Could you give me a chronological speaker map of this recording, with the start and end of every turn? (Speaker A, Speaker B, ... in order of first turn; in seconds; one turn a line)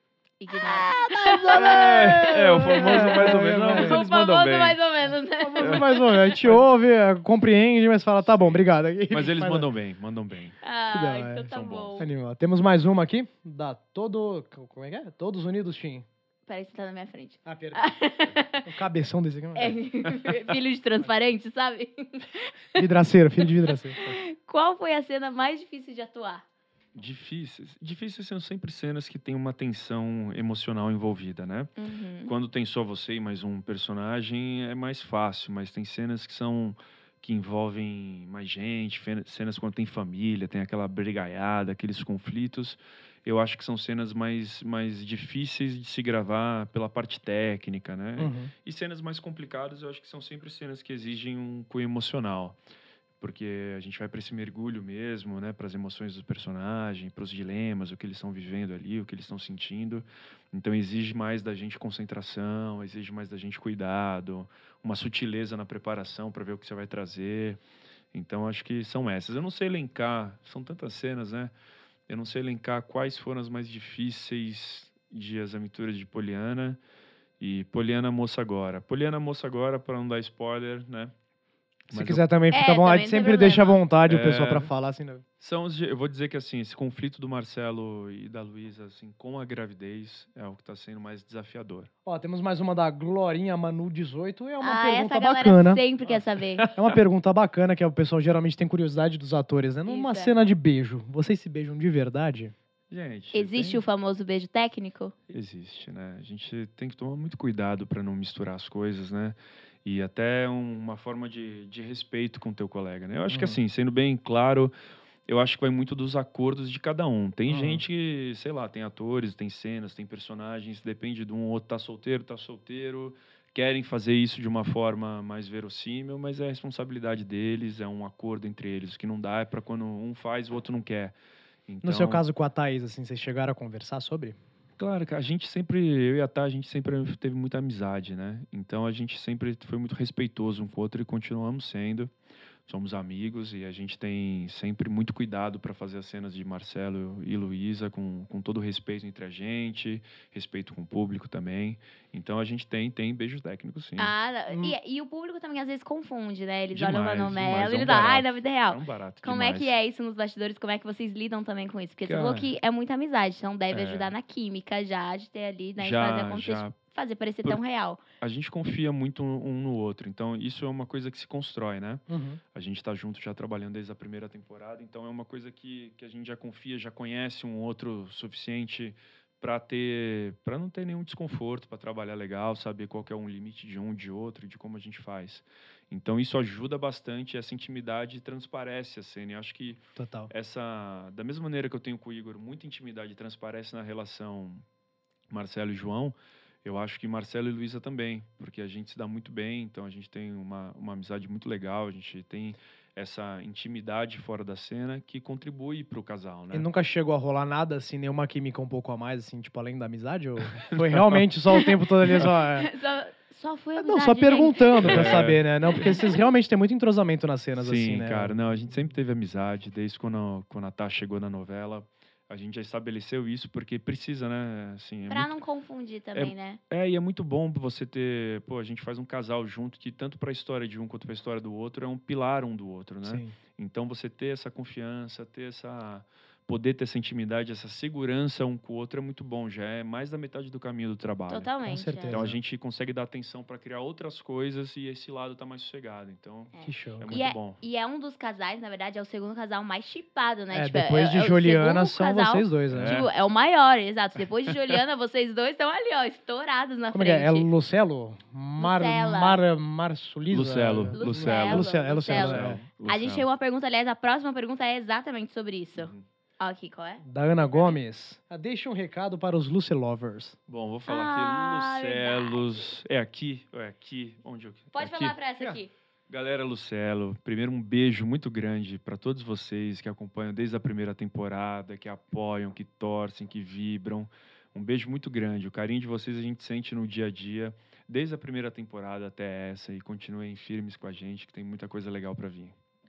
Speaker A: 0.4-6.4
Speaker B: 1.1-4.0
Speaker C: 1.5-4.8
Speaker B: 5.4-9.7
Speaker C: 5.6-5.9
Speaker C: 8.2-10.6
Speaker A: 10.6-12.1
Speaker B: 10.9-16.1
Speaker C: 11.5-12.0
Speaker A: 16.5-18.6
Speaker B: 17.4-17.9
Speaker B: 18.6-19.8
Speaker A: 19.5-22.9
Speaker B: 22.8-24.0
Speaker A: 23.9-26.4
Speaker C: 26.9-31.7
Speaker A: 31.8-32.3
Speaker C: 32.2-52.6
Speaker B: 48.2-48.5
Speaker C: 53.2-67.6
Speaker C: 68.1-71.5
Speaker C: 72.1-76.8
Speaker C: 77.4-81.1
Speaker C: 81.9-82.3
Speaker B: 81.9-85.2
Speaker A: 82.5-83.8
Speaker C: 84.1-84.7
Speaker C: 85.4-91.9
Speaker B: 92.0-95.8
Speaker A: 94.6-96.6
Speaker C: 96.0-97.0
Speaker B: 96.7-102.5
Speaker A: 99.9-100.3
Speaker C: 102.9-103.8
Speaker A: 103.3-105.1
Speaker C: 105.3-114.7
Speaker B: 113.3-113.6
Speaker C: 115.3-131.1
Speaker B: 117.5-117.8
Speaker C: 131.7-132.2
Speaker B: 131.8-134.4
Speaker C: 134.8-142.1
Speaker C: 142.7-154.1
Speaker A: 154.0-168.0
Speaker C: 156.7-159.7
Speaker C: 162.1-162.5
Speaker C: 163.7-164.1
Speaker C: 165.8-166.7
Speaker C: 168.2-194.6
Speaker B: 172.1-172.4
Speaker B: 189.9-190.3
Speaker C: 195.3-206.7
Speaker B: 206.5-212.7
Speaker C: 210.6-211.2
Speaker A: 212.2-216.2
Speaker B: 213.8-218.4
Speaker C: 214.8-215.9
Speaker C: 217.6-225.3
Speaker A: 225.1-226.6
Speaker C: 226.1-241.5
Speaker B: 233.0-233.3
Speaker A: 241.3-242.2
Speaker B: 241.6-242.4
Speaker C: 242.1-247.6
Speaker A: 246.5-257.5
Speaker B: 246.6-247.2
Speaker B: 250.5-253.0
Speaker C: 252.7-253.1
Speaker B: 256.9-262.6
Speaker A: 258.6-259.4
Speaker C: 260.3-263.2
Speaker A: 260.9-267.0
Speaker C: 265.8-266.0
Speaker B: 267.0-270.4
Speaker C: 270.5-275.2
Speaker A: 270.9-272.4
Speaker A: 274.7-275.7
Speaker C: 276.1-292.5